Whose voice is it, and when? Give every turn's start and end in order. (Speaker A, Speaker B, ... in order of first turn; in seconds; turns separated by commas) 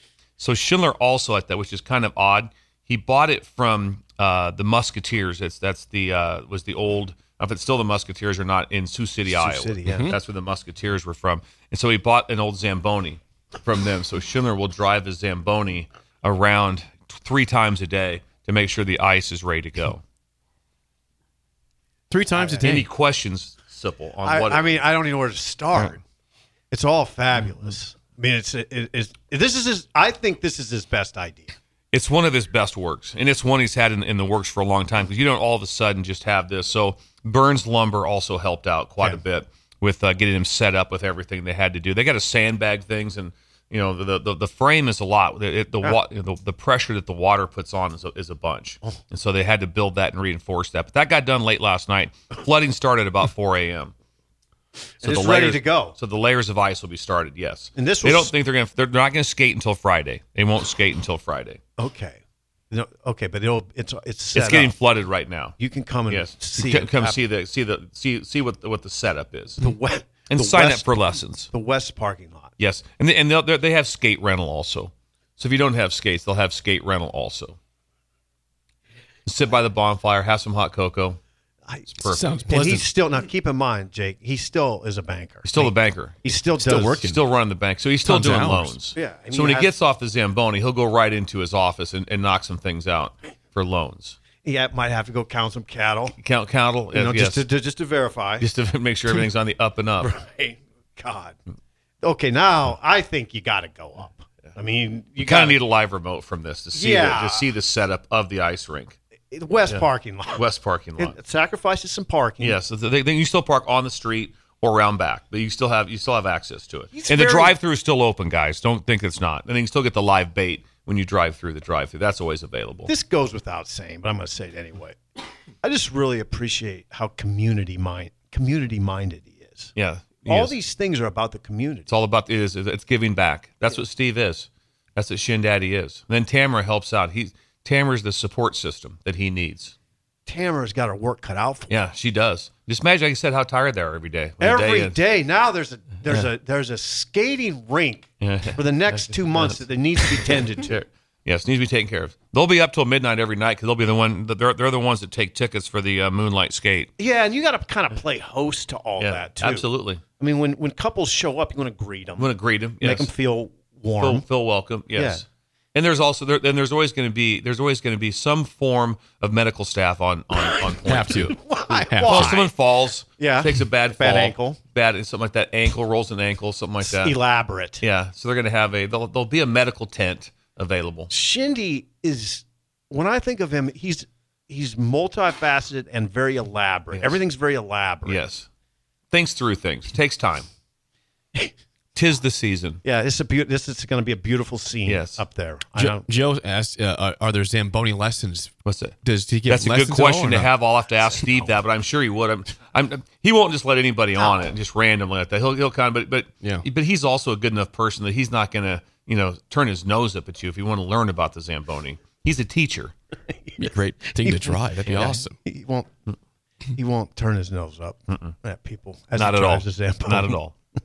Speaker A: 0.4-20.0, Speaker B: 9.2-10.1, Speaker C: 9.9-10.2, Speaker C: 22.1-22.9, Speaker B: 22.3-22.8, Speaker A: 22.6-24.8, Speaker B: 24.2-26.0, Speaker A: 25.7-26.0, Speaker B: 26.7-31.6, Speaker A: 31.9-53.9, Speaker A: 55.0-61.6, Speaker B: 55.0-56.0, Speaker B: 57.8-58.3, Speaker B: 61.8-62.2, Speaker B: 62.7-64.7, Speaker A: 64.3-65.5, Speaker B: 65.6-67.2, Speaker A: 66.1-69.6, Speaker B: 69.6-72.5, Speaker A: 70.3-71.5, Speaker A: 72.6-77.6, Speaker A: 79.2-81.2, Speaker B: 81.7-87.0, Speaker A: 82.0-82.3, Speaker C: 82.0-82.8, Speaker A: 85.4-86.2, Speaker C: 86.5-87.2, Speaker A: 86.9-94.2, Speaker C: 88.0-88.8, Speaker B: 88.9-89.7, Speaker B: 94.4-96.2, Speaker A: 96.2-97.4, Speaker B: 96.9-98.5, Speaker A: 98.4-100.1, Speaker B: 100.0-101.4, Speaker B: 102.0-105.6, Speaker A: 105.2-109.0, Speaker B: 106.7-107.5, Speaker B: 109.3-110.4, Speaker A: 110.3-111.2, Speaker B: 111.0-112.6, Speaker A: 112.4-122.9, Speaker B: 116.9-117.5, Speaker B: 122.8-125.0, Speaker B: 125.6-129.7, Speaker A: 129.7-130.5, Speaker B: 130.2-131.9, Speaker A: 131.9-139.7, Speaker B: 140.2-141.7, Speaker A: 141.7-145.0, Speaker B: 144.4-150.8, Speaker A: 148.2-156.9, Speaker B: 157.0-159.7, Speaker A: 159.0-160.0, Speaker B: 160.2-162.3, Speaker A: 162.2-163.1, Speaker B: 162.8-164.2, Speaker A: 164.0-171.4, Speaker B: 164.9-165.2, Speaker B: 170.5-172.5, Speaker C: 170.8-172.4, Speaker A: 172.0-177.2, Speaker B: 173.2-174.6, Speaker B: 176.8-177.8, Speaker A: 177.8-181.1, Speaker B: 181.1-188.2, Speaker A: 186.9-187.2, Speaker A: 188.0-188.5, Speaker A: 189.1-190.5, Speaker A: 191.9-192.8, Speaker B: 192.8-196.1, Speaker A: 194.8-195.2, Speaker C: 195.8-200.5, Speaker A: 198.6-212.9, Speaker B: 213.4-215.9, Speaker C: 213.6-215.4, Speaker B: 216.8-220.4, Speaker A: 218.1-218.3, Speaker A: 219.1-220.5